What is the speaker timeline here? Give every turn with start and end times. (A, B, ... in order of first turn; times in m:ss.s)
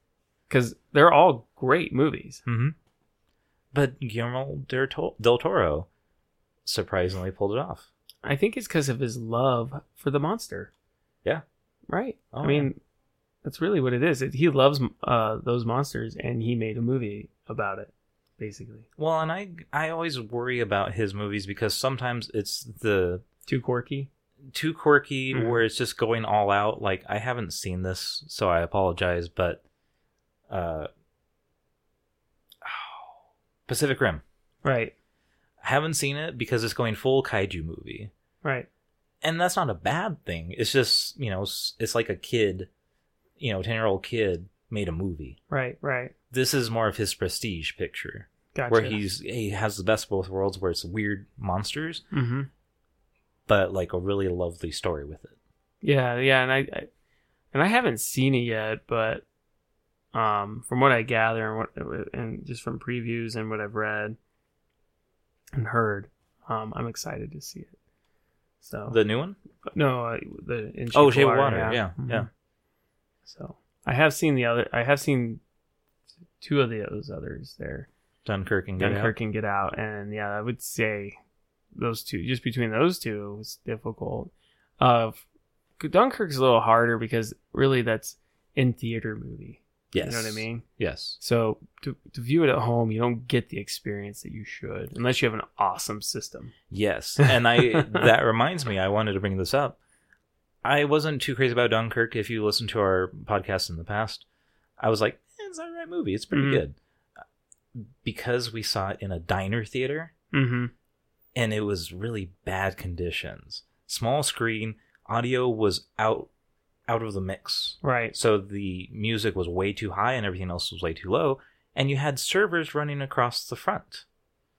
0:00.5-0:02.4 A
0:02.5-0:02.8 B
0:03.7-0:05.9 B
0:06.6-0:07.9 B
0:08.2-0:10.7 A
0:11.9-0:12.8 A
0:12.3-0:12.7 B
0:13.4-0:18.9 A
0:19.0-0:23.2 B
0:23.5-0:24.1 A
0:24.5-0:29.6 B
0:25.3-0:25.6 A
0:30.5-0:30.9 B
0:32.6-0:33.2 B
0:33.7-0:34.2 B
0:34.6-0:34.9 A
0:35.6-0:38.1 B
0:38.4-0:38.7 A
0:39.2-0:42.7 B
0:43.4-0:45.4 B
0:45.5-0:46.1 A
0:46.3-0:52.0 B
0:48.5-0:49.0 A
0:52.1-0:52.5 A
0:53.5-0:55.4 B
0:55.8-0:56.9 A
0:57.5-0:59.2 A
1:00.1-1:04.2 A
1:05.6-1:07.7 A
1:08.6-1:09.0 A
1:08.9-1:09.4 B
1:09.7-1:12.3 A
1:10.9-1:12.3 B
1:13.3-1:15.4 A
1:16.4-1:17.9 A
1:18.2-1:19.1 B
1:18.8-1:21.2 A
1:21.7-1:25.2 A
1:25.8-1:30.7 A
1:29.9-1:31.2 B
1:31.2-1:36.5 A
1:36.7-1:39.8 B
1:37.2-1:38.0 A
1:40.6-1:44.2 B
1:44.8-1:46.8 B
1:46.3-1:46.6 A
1:47.8-1:50.1 B
1:50.3-1:50.7 A
1:51.4-1:56.3 B
1:56.9-2:04.0 B
1:57.8-1:58.1 A